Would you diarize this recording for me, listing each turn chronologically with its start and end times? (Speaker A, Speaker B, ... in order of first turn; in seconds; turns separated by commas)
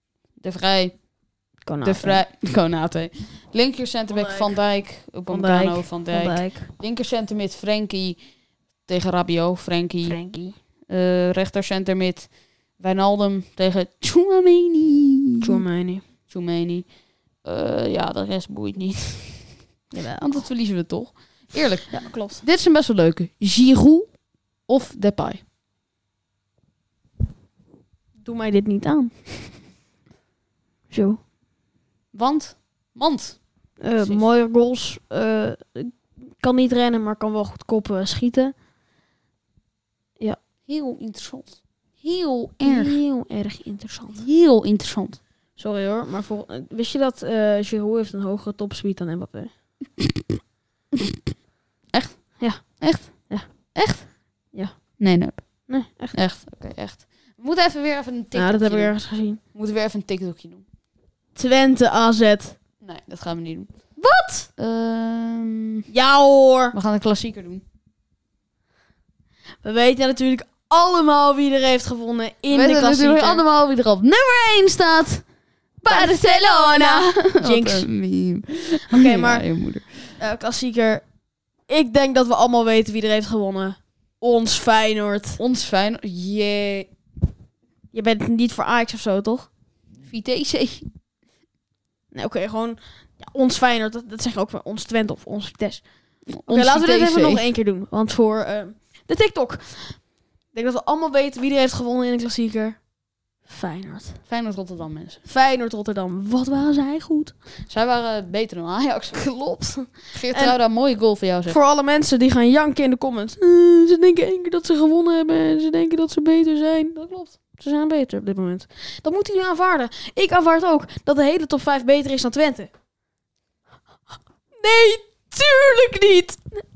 Speaker A: 0.4-1.0, Speaker B: 1.6-2.2, Speaker A: 1.8-8.2, Speaker B: 4.1-4.6, Speaker B: 5.3-6.7, Speaker A: 8.8-10.2, Speaker B: 10.1-10.6, Speaker A: 10.9-15.5, Speaker B: 15.4-16.0, Speaker A: 16.3-19.6, Speaker B: 19.9-20.5, Speaker A: 20.2-25.4, Speaker B: 21.9-22.4, Speaker B: 28.2-29.5, Speaker B: 30.9-31.2, Speaker A: 32.1-33.4, Speaker B: 33.8-38.5, Speaker A: 34.0-34.2, Speaker A: 40.6-43.0, Speaker B: 42.6-44.2, Speaker A: 44.1-45.2, Speaker B: 45.6-49.5, Speaker A: 51.9-54.2, Speaker B: 52.4-53.5, Speaker B: 54.5-55.0, Speaker A: 55.0-59.0, Speaker B: 55.6-56.2, Speaker B: 58.3-59.4, Speaker A: 59.5-60.6, Speaker B: 61.4-62.6, Speaker A: 62.8-64.0, Speaker B: 64.0-64.5, Speaker A: 64.6-65.9, Speaker B: 65.9-66.8, Speaker A: 66.7-67.6, Speaker B: 69.6-73.4, Speaker A: 72.5-75.3, Speaker B: 75.8-77.9, Speaker A: 75.8-80.1, Speaker B: 78.9-81.1, Speaker B: 81.7-85.4, Speaker A: 85.4-86.9, Speaker B: 87.9-89.5, Speaker A: 90.1-90.9, Speaker B: 92.1-95.8, Speaker A: 96.3-97.4, Speaker B: 96.5-102.8, Speaker B: 103.5-104.2, Speaker A: 104.3-105.2, Speaker B: 105.3-107.3, Speaker A: 107.7-109.2, Speaker B: 109.1-110.6, Speaker A: 110.1-111.6, Speaker B: 111.5-122.7, Speaker B: 124.5-126.6